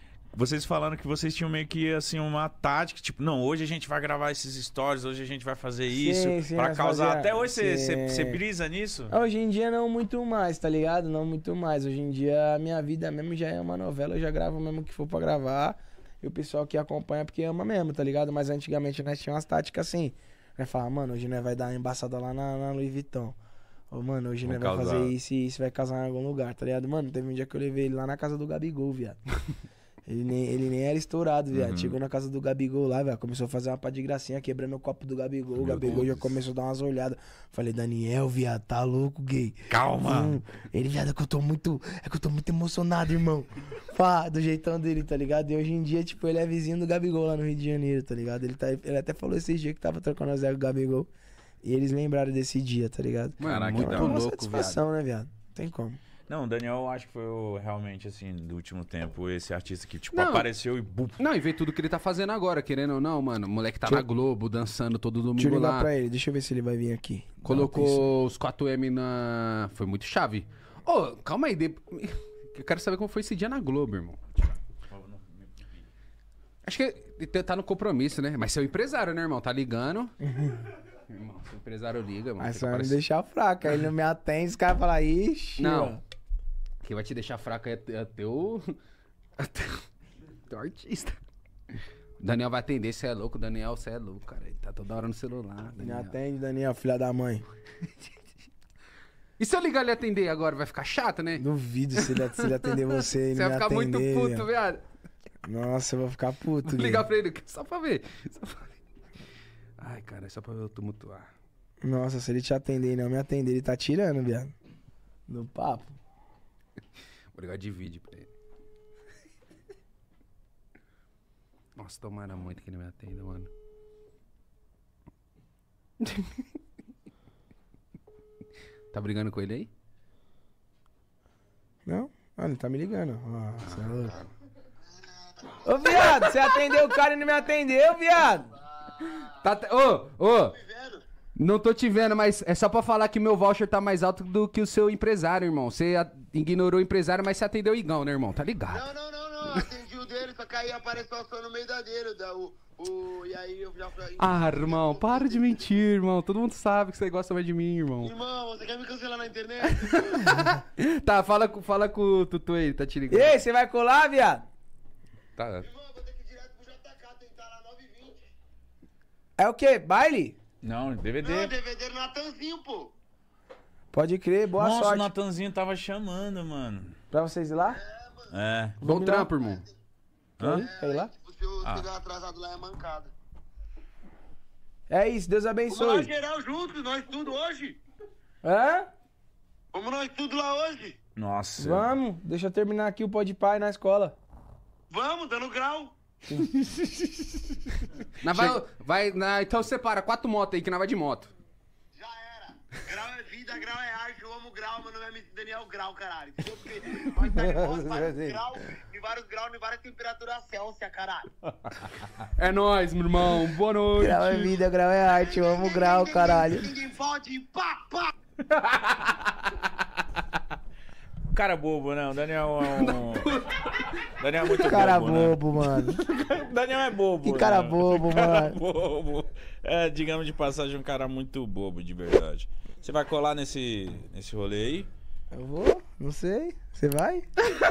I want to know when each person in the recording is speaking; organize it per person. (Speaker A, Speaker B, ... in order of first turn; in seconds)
Speaker A: 0.3-9.1, 24.4-25.1, 31.5-31.9, 35.6-36.4, 39.7-40.4, 53.4-54.2, 56.3-61.2, 74.9-75.8, 170.6-171.5, 174.6-176.9, 178.3-178.8, 180.4-180.7, 191.2-191.9, 221.3-223.3, 224.1-225.4, 225.9-234.9
Speaker B: 5.9-8.4, 9.1-23.4, 23.9-29.2, 30.1-51.1, 51.6-56.0, 65.4-68.0, 80.2-80.6, 82.4-86.0, 95.8-97.4, 101.4-104.5, 105.4-107.1, 111.8-114.5, 115.3-115.9, 131.8-134.2, 135.6-138.5, 163.1-164.4, 169.4-170.4, 173.9-175.1, 177.1-177.8, 178.8-179.3, 180.4-181.1, 184.9-186.1, 188.4-188.9, 191.6-194.2, 196.2-196.9, 207.3-208.4, 214.0-216.7, 224.6-226.0, 227.2-228.6, 235.3-237.2
Speaker C: 53.4-54.8, 60.1-60.5, 61.2-65.9, 67.4-74.4, 76.6-80.1, 81.1-83.0, 85.6-86.0, 86.8-88.8, 89.4-89.8, 90.5-91.2, 92.2-96.1, 99.4-101.4, 102.0-104.8, 106.6-108.8, 109.8-111.3, 117.3-118.3, 121.8-123.5, 126.0-126.4, 128.9-129.7, 133.7-134.2, 139.0-140.6, 141.3-148.9, 154.2-158.1, 159.6-163.4, 165.4-165.7, 178.8-179.6, 198.2-201.3, 212.4-214.6, 222.6-224.0
Speaker D: 138.7-139.3, 140.5-141.0, 148.7-155.4, 158.0-160.3, 165.6-168.3, 171.2-172.9, 177.8-178.3, 180.6-183.1, 185.7-187.8, 189.7-190.9, 194.9-195.9, 201.9-211.3, 215.1-218.1